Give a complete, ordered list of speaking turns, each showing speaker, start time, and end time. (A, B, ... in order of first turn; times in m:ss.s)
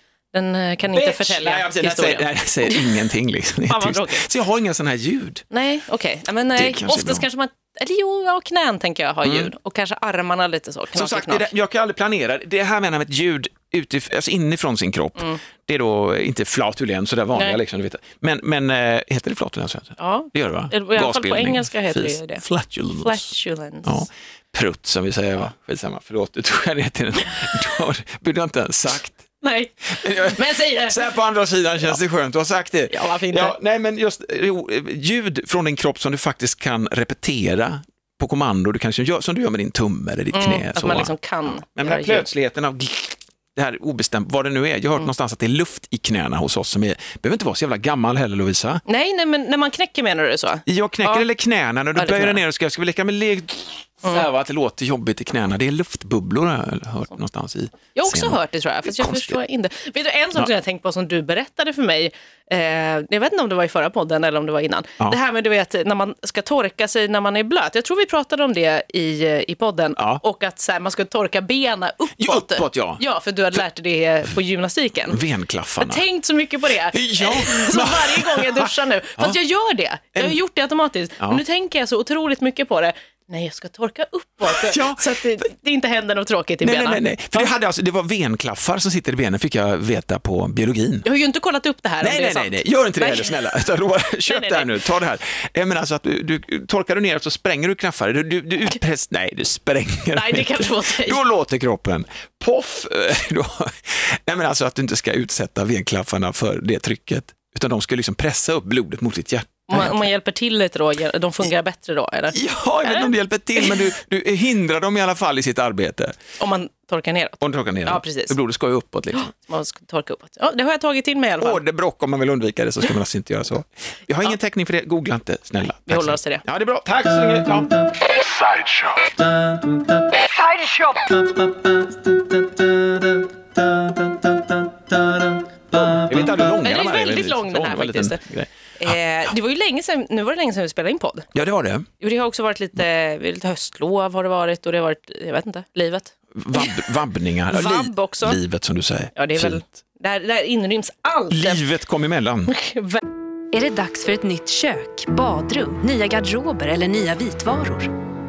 0:00.3-0:03.1 A
0:00.9-0:05.4 B
0:03.7-0:04.2 A
0:05.5-0:11.5 A
0:06.6-0:07.2 B
0:09.2-0:09.5 B
0:10.9-0:23.3 B
0:20.0-0:22.4 A
0:22.9-0:24.1 A
0:23.8-0:29.2 B
0:29.4-0:31.0 A
0:29.9-0:41.1 B
0:32.9-0:33.5 A
0:40.3-0:42.2 A
0:41.6-0:48.8 B
0:48.9-0:51.2 A
0:50.6-0:59.4 B
0:51.9-0:52.4 A
0:57.9-1:15.2 A
1:10.0-1:10.2 B
1:12.2-1:13.0 B
1:15.1-1:16.0 B
1:15.8-1:27.5 A
1:16.9-1:19.4 B
1:24.4-1:25.4 B
1:26.6-1:31.1 B
1:31.0-1:33.3 A
1:32.0-1:50.0 B
1:34.2-1:34.8 A
1:40.1-1:41.2 A
1:49.7-1:53.7 A
1:52.3-1:56.2 B
1:56.4-1:58.4 A
1:57.4-1:59.3 B
1:59.2-2:01.6 A
2:01.4-2:13.0 B
2:05.9-2:06.4 A
2:13.8-2:15.1 B
2:15.7-2:18.2 A
2:15.9-2:19.0 B
2:18.8-2:21.3 A
2:21.3-2:21.9 B
2:22.0-2:26.8 A
2:26.3-2:29.6 B
2:27.5-2:28.4 A
2:29.1-2:31.6 A
2:31.3-2:32.5 B
2:32.5-2:33.0 A
2:33.5-2:37.9 C